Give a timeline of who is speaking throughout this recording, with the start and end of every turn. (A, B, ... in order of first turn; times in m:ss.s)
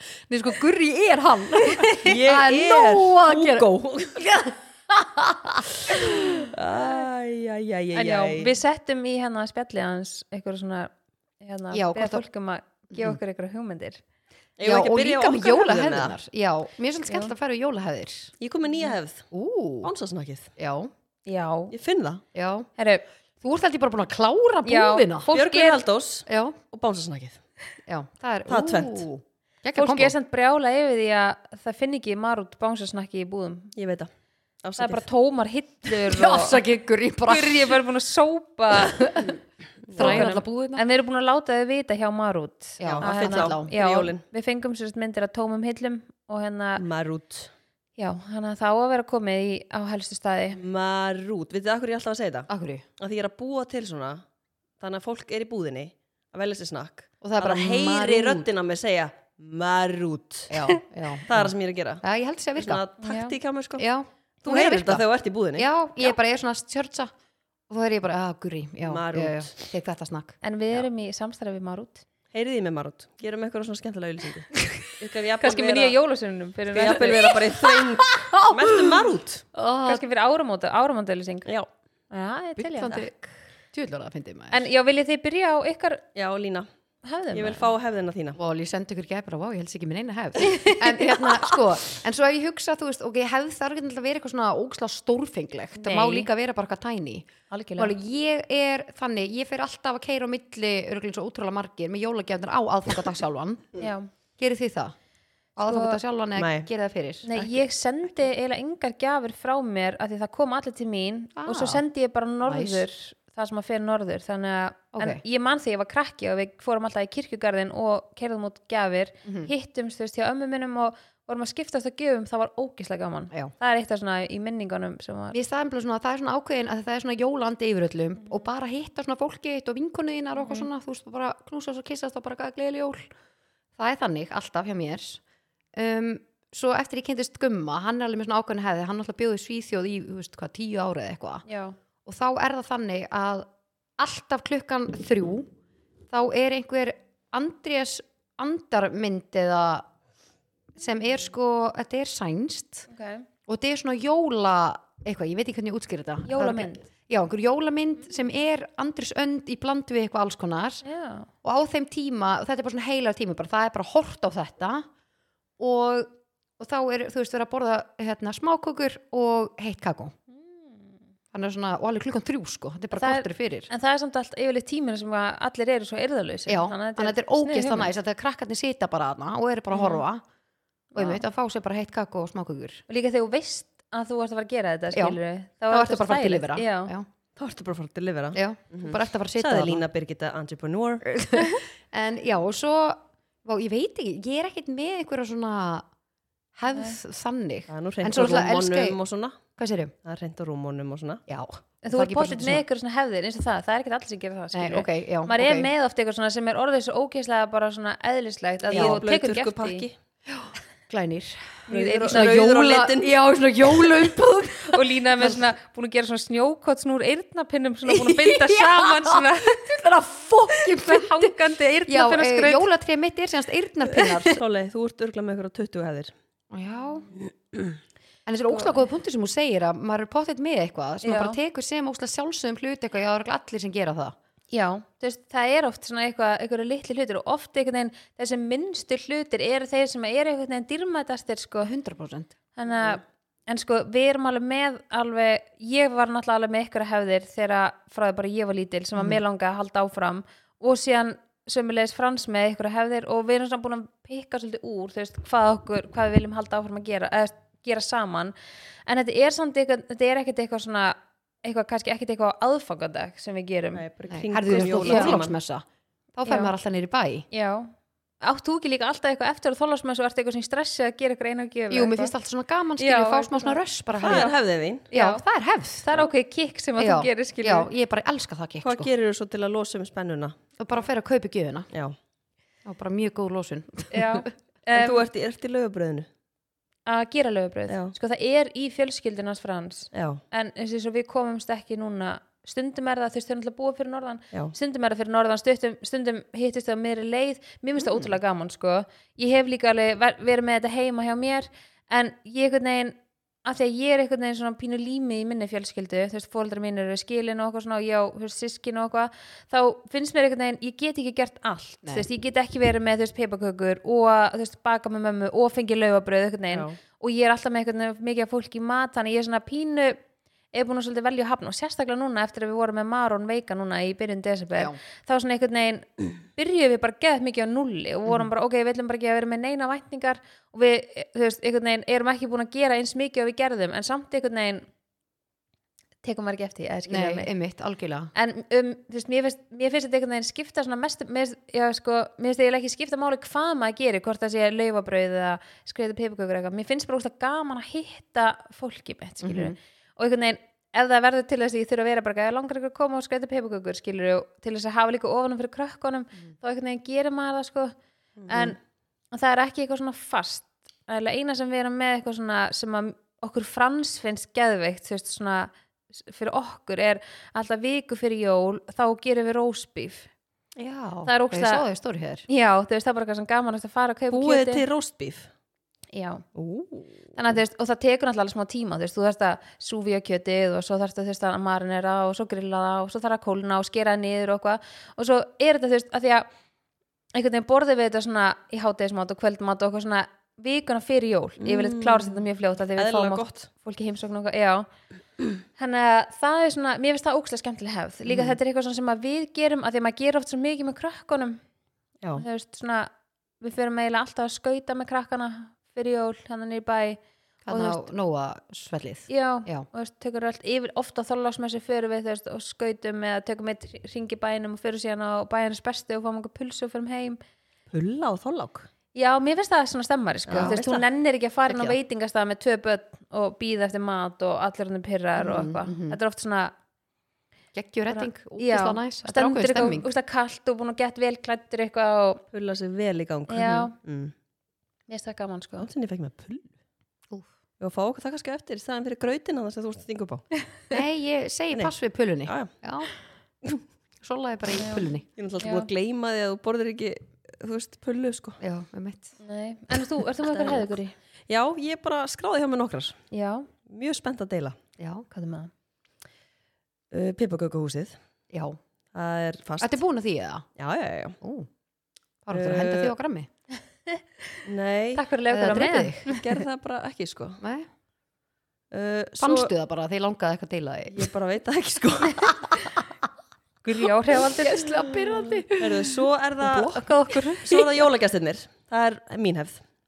0:00.3-0:06.4 A
0:01.8-0:02.1 B
0:02.0-0:04.3 C
0:06.0-0:08.5 C
0:08.0-0:14.0 B
0:11.7-0:12.2 A
0:12.9-0:13.2 A
0:14.6-0:16.2 C
0:14.6-0:18.3 A
0:18.4-0:19.3 C
0:19.3-0:19.9 A
0:19.8-0:20.5 C
0:20.6-0:20.9 A
0:21.3-0:21.7 B
0:21.7-0:22.2 C
0:22.3-0:22.7 A
0:22.8-0:23.0 B
0:23.4-0:25.3 A
0:24.7-0:25.8 B
0:25.3-0:27.4 C
0:26.3-0:26.6 A
0:27.9-0:30.1 A
0:28.5-0:29.1 C
0:29.8-0:33.7 B
0:33.8-0:34.1 C
0:34.6-0:35.1 C
0:34.8-0:36.6 B
0:36.1-0:37.8 A
0:37.3-0:39.3 B
0:38.7-0:39.4 A
0:39.9-0:40.4 C
0:40.0-0:40.8 A
0:40.0-0:46.8 B
0:42.8-0:43.7 A
0:42.8-0:44.2 C
0:46.8-0:47.5 C
0:48.0-0:50.6 B
0:50.6-0:54.2 C
0:52.5-0:52.8 A
0:54.8-1:00.6 C
0:57.2-0:58.5 A
1:00.5-1:02.8 A
1:01.3-1:02.0 C
1:02.6-1:03.8 C
1:03.0-1:03.4 B
1:03.8-1:05.0 A
1:04.4-1:05.7 C
1:05.6-1:07.1 A
1:07.7-1:10.4 A
1:08.8-1:09.6 C
1:10.4-1:12.0 B
1:12.3-1:16.0 C
1:15.4-1:17.3 B
1:16.7-1:19.4 C
1:16.8-1:20.0 A
1:19.8-1:21.5 B
1:22.1-1:23.0 B
1:22.6-1:24.6 A
1:24.5-1:26.0 B
1:26.2-1:26.7 C
1:27.0-1:27.7 B
1:27.3-1:28.4 C
1:28.4-1:43.8 A
1:30.5-1:30.8 B
1:35.9-1:36.2 C
1:37.5-1:37.9 B
1:43.8-1:44.1 B
1:44.4-1:45.0 A
1:45.6-1:47.6 A
1:45.7-1:46.0 B
1:46.4-1:46.7 C
1:47.3-2:05.4 B
1:51.4-1:51.8 A
1:52.4-1:52.8 A
1:54.9-1:55.2 A
1:59.2-1:59.5 A
2:05.3-2:13.1 A
2:10.4-2:10.7 B
2:13.8-2:15.2 A
2:15.7-2:21.4 A
2:21.5-2:21.8 B
2:22.0-2:25.5 A
2:26.1-2:29.9 A
2:30.8-2:32.9 A
2:32.9-2:33.3 B
2:33.5-2:40.8 A
2:36.2-2:36.8 B
2:40.8-2:41.3 B
2:41.4-2:44.9 A
2:45.6-2:50.1 A
2:50.4-2:51.0 B
2:51.3-2:53.7 A
2:53.0-2:57.9 B
2:56.5-3:00.2 A
3:00.9-3:01.2 B
3:01.0-3:02.8 A
3:02.9-3:06.9 B
3:04.9-3:05.2 A
3:05.7-3:07.1 A
3:07.4-3:11.1 C
3:08.3-3:09.8 A
3:11.1-3:15.9 A
3:16.6-3:19.0 A
3:17.7-3:19.4 C
3:19.6-3:19.9 A
3:20.0-3:21.2 C
3:21.3-3:22.6 A
3:21.8-3:29.9 B
3:24.5-3:25.7 A
3:28.7-3:29.9 C
3:28.7-3:29.0 A
3:30.3-3:35.4 A
3:31.7-3:32.4 B
3:31.7-3:34.2 C
3:34.7-3:39.7 B
3:37.9-3:44.4 A
3:40.6-3:42.7 B
3:44.2-3:46.1 C
3:46.5-3:47.1 A
3:48.3-3:54.2 A
3:51.0-3:51.4 B
3:54.5-4:01.7 B
4:01.6-4:02.9 A
4:02.6-4:18.4 B
4:18.9-4:23.8 B
4:23.7-4:25.3 C
4:24.1-4:27.3 A
4:24.8-4:25.2 B
4:26.3-4:26.5 B
4:27.3-4:32.1 B
4:31.7-4:34.3 A
4:32.8-4:34.3 B
4:34.0-4:34.9 C
4:34.9-4:35.2 B
4:34.9-4:36.0 A
4:35.8-4:37.7 B
4:36.8-4:38.9 A
4:38.6-4:40.4 C
4:40.6-4:41.7 A
4:42.6-4:44.3 A
4:43.9-4:45.0 B
4:44.8-4:46.1 C
4:46.9-5:20.0 B
4:47.7-4:48.0 C
4:49.9-4:50.2 C
5:16.5-5:16.8 C
5:20.5-5:34.7 B
5:36.0-5:37.3 B
5:36.9-5:38.1 A
5:38.1-5:57.8 B
5:49.2-5:49.6 A
5:58.2-5:58.5 C
5:58.3-5:58.6 B
5:59.1-6:10.1 B
6:10.6-6:12.2 A
6:11.1-6:11.6 B
6:12.3-6:14.6 B
6:14.1-6:15.3 C
6:15.9-6:16.2 B
6:16.4-6:17.2 C
6:17.2-6:26.3 B
6:27.1-6:34.7 B
6:31.4-6:33.5 C
6:35.6-6:41.4 B
6:38.1-6:38.4 A
6:42.2-6:42.9 B
6:43.4-6:47.8 B
6:47.5-6:49.7 A
6:49.1-6:57.2 B
6:57.7-6:58.7 C
6:58.9-7:06.5 B
7:00.3-7:00.8 C
7:00.3-7:00.6 A
7:01.5-7:01.8 A
7:05.2-7:06.0 A
7:07.5-7:09.9 A
7:07.9-7:12.2 B
7:12.3-7:14.1 C
7:13.3-7:13.7 B
7:14.9-7:15.7 B
7:15.6-7:16.6 C
7:17.6-7:20.3 C
7:20.7-7:22.9 A
7:22.2-7:22.5 C
7:24.0-7:25.1 A
7:24.6-7:24.9 B
7:25.2-7:28.4 C
7:25.4-7:25.7 B
7:28.4-7:29.1 A
7:29.2-7:30.9 B
7:30.3-7:30.7 C
7:31.3-7:33.0 C
7:33.1-7:33.5 B
7:33.7-7:34.6 C
7:34.8-7:35.1 A
7:35.1-7:35.5 B
7:36.9-7:38.0 C
7:38.3-7:38.6 A
7:38.9-7:39.8 C
7:39.6-7:40.5 A
7:40.6-7:41.2 C
7:41.2-7:41.5 A
7:42.2-7:43.3 A
7:42.3-7:42.9 C
7:44.4-7:45.1 C
7:45.0-7:46.2 B
7:45.3-7:46.1 A
7:46.1-7:47.4 C
7:47.4-7:47.7 A
7:48.7-7:49.5 C
7:49.2-7:51.1 A
7:50.9-7:52.8 C
7:53.6-7:54.8 B
7:54.4-7:57.6 A
7:55.6-7:59.6 C
7:56.8-7:57.5 B